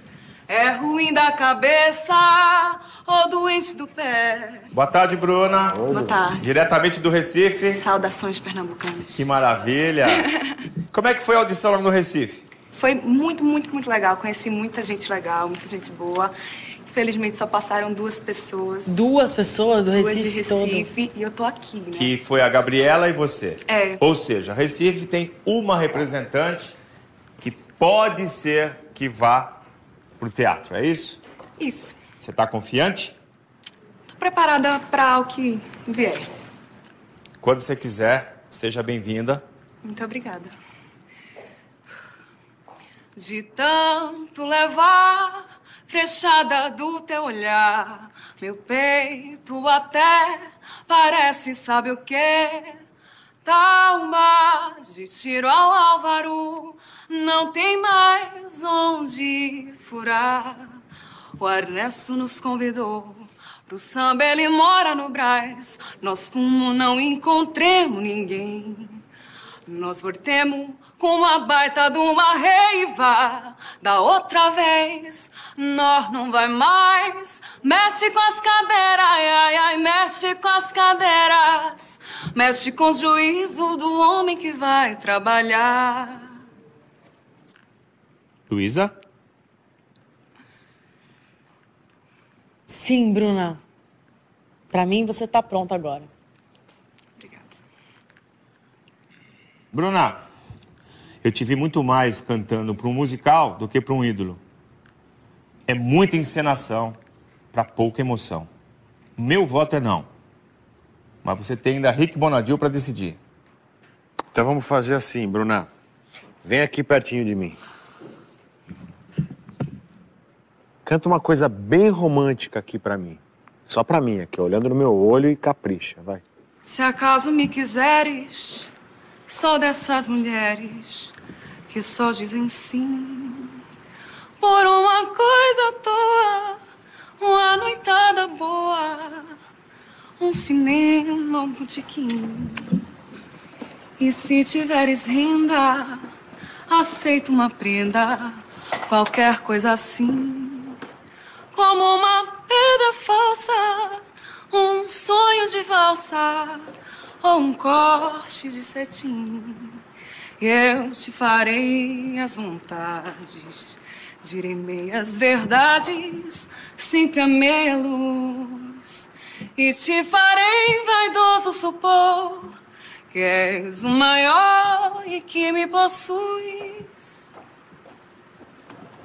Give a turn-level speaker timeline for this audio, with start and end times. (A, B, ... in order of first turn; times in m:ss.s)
0:00.5-0:04.7 A
0:04.7-0:05.8 B
0:05.7-0:06.2 C
0:05.9-0:06.5 A
0:06.4-0:07.8 B
0:07.7-0:09.3 A
0:09.2-0:10.3 B
0:10.9-0:12.4 B
0:12.7-0:16.3 A
0:16.8-0:19.1 A
0:18.9-0:20.9 D
0:19.9-0:22.2 A
0:21.9-0:26.8 B
0:23.7-0:24.0 A
0:27.4-0:29.6 B
0:30.2-0:31.2 B
0:31.6-0:32.0 A
0:32.2-0:33.2 B
0:34.1-0:36.3 A
0:37.4-0:39.4 B
0:39.8-0:40.5 A
0:43.2-0:52.8 A
0:53.4-1:00.8 A
1:01.4-1:09.0 A
1:09.7-1:26.3 A
1:28.5-1:28.9 B
1:32.7-1:33.6 D
1:34.7-1:36.1 D
1:37.2-1:37.4 A
1:39.7-1:40.2 B
1:41.2-1:44.4 B
1:45.7-1:47.0 B
1:47.5-1:48.5 B
1:49.2-1:50.1 B
1:51.2-1:53.2 B
1:54.3-1:55.7 C
1:56.4-1:57.6 C
2:00.8-2:06.2 C
2:06.6-2:08.7 A
2:09.3-2:11.2 A
2:11.7-2:13.6 A
2:14.4-2:16.6 A
2:17.2-2:19.3 A
2:20.2-2:22.8 A
2:24.0-2:26.1 A
2:26.7-2:30.8 A
2:31.5-2:36.7 A
2:37.2-2:39.8 A
2:40.4-2:52.5 A
2:53.1-2:57.3 A